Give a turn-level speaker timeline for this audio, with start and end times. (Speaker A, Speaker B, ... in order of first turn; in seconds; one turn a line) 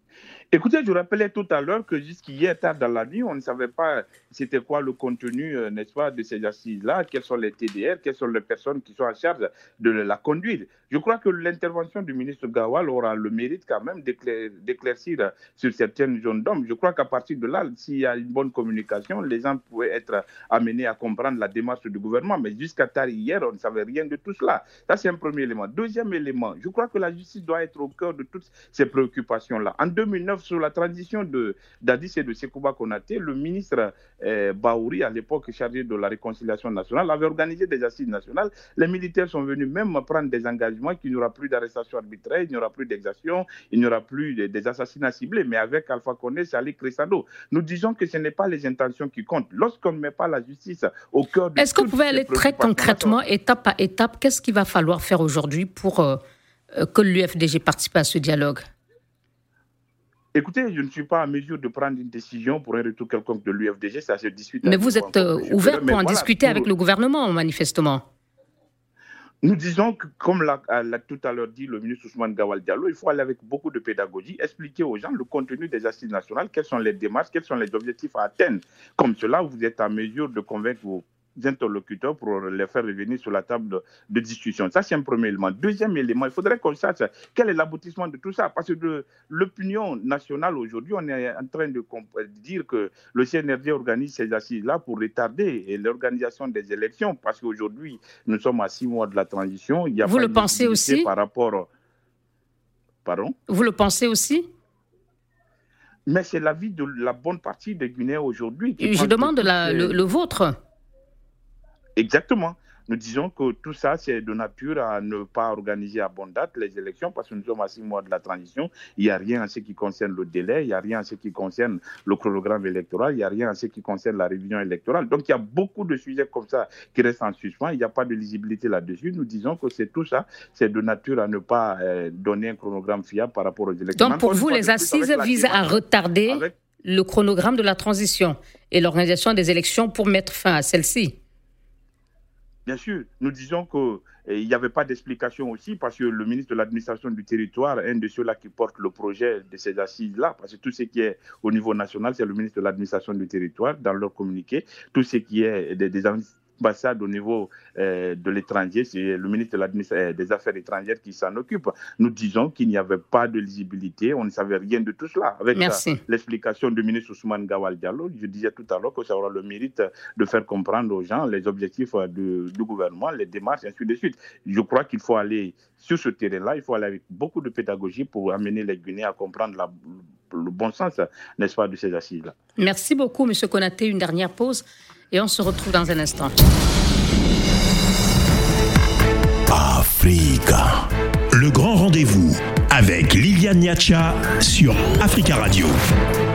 Speaker A: 0.5-53.1
Speaker B: 51.6-56.2
Speaker B: 56.7-58.6
Speaker A: 60.3-66.7
Speaker B: 64.6-68.0
Speaker A: 69.4-101.7
Speaker B: 100.0-101.1
Speaker A: 103.0-103.3
Speaker B: 103.5-104.4
Speaker A: 106.1-110.0
Speaker B: 108.8-110.5
Speaker A: 112.0-135.8
Speaker B: 133.9-141.2
Speaker A: 142.7-179.7
Speaker B: 165.5-166.0
Speaker A: 180.3-182.3
Speaker B: 182.6-186.3
Speaker C: 189.5-195.7